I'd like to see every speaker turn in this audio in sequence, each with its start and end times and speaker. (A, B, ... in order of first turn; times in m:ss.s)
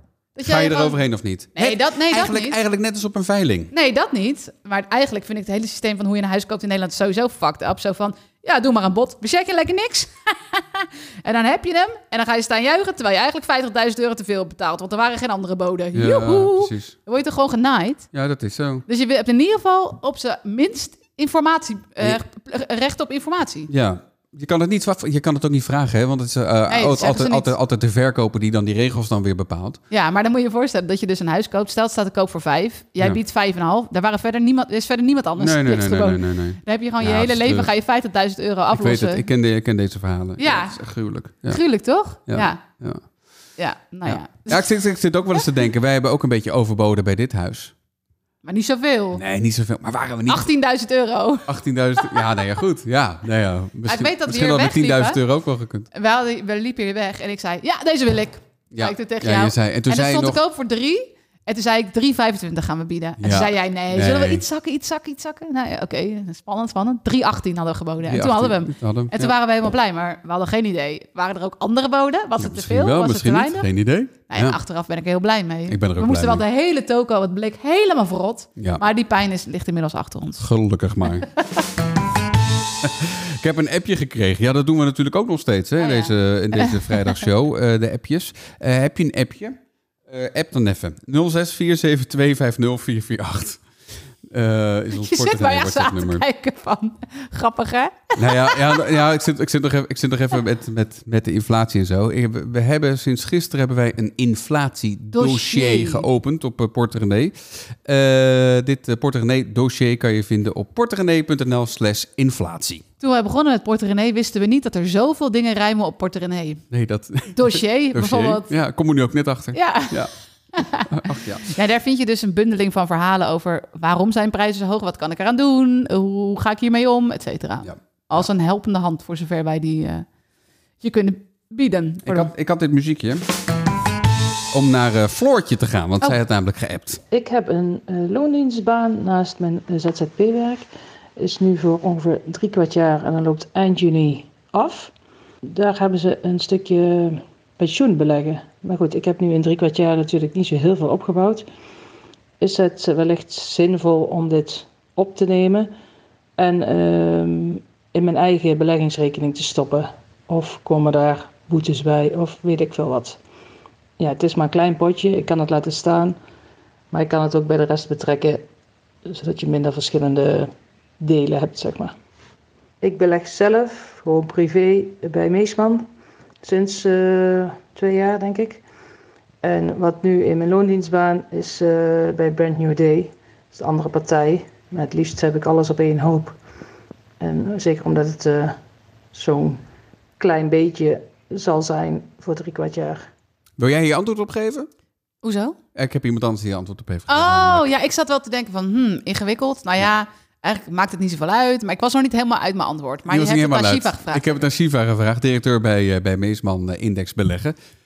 0:00.4-0:01.0 A
0:00.4-0:03.7 B
0:01.5-0:02.6 A
0:03.7-0:18.1 A
0:15.9-0:16.9 B
0:18.1-0:18.8 B
0:18.9-0:23.7 A
0:23.7-0:29.8 B
0:26.7-0:27.5 A
0:29.9-0:39.2 A
0:35.4-0:37.7 B
0:38.7-0:41.6 B
0:40.4-0:40.8 A
0:41.5-0:42.6 A
0:42.3-0:43.0 B
0:43.6-0:44.7 A
0:44.0-0:47.7 B
0:48.4-0:49.2 A
0:49.1-0:50.5 B
0:50.3-0:52.4 A
0:51.5-0:55.9 B
0:53.9-0:55.2 A
0:55.9-1:13.7 A
0:58.7-1:00.4 B
1:03.2-1:04.4 B
1:08.0-1:09.3 B
1:12.4-1:14.6 B
1:14.3-1:20.4 A
1:15.7-1:16.4 B
1:20.4-1:21.3 B
1:21.1-1:21.6 A
1:22.8-1:33.6 B
1:25.8-1:27.2 A
1:34.2-1:36.2 B
1:34.9-1:38.9 A
1:38.2-1:52.8 B
1:45.1-1:46.0 A
1:53.0-1:56.6 A
1:56.7-2:00.1 B
1:57.3-1:58.5 A
1:59.5-2:10.0 A
2:00.9-2:01.5 B
2:07.6-2:08.2 B
2:10.8-2:12.3 A
2:12.0-2:13.2 B
2:14.5-2:17.0 B
2:17.1-2:24.9 C
2:25.5-2:31.5 C
2:32.4-2:35.7 C
2:36.4-2:43.2 C
2:44.0-2:46.2 C
2:46.9-2:48.5 C
2:49.0-2:51.9 C
2:52.8-2:55.8 C
2:56.4-2:58.6 C
2:59.4-3:06.4 C
3:07.2-3:08.6 C
3:09.1-3:09.6 C
3:10.2-3:13.1 C
3:13.6-3:14.7 B
3:15.2-3:15.6 A
3:15.7-3:17.7 B
3:17.1-3:24.3 A
3:23.1-3:27.6 B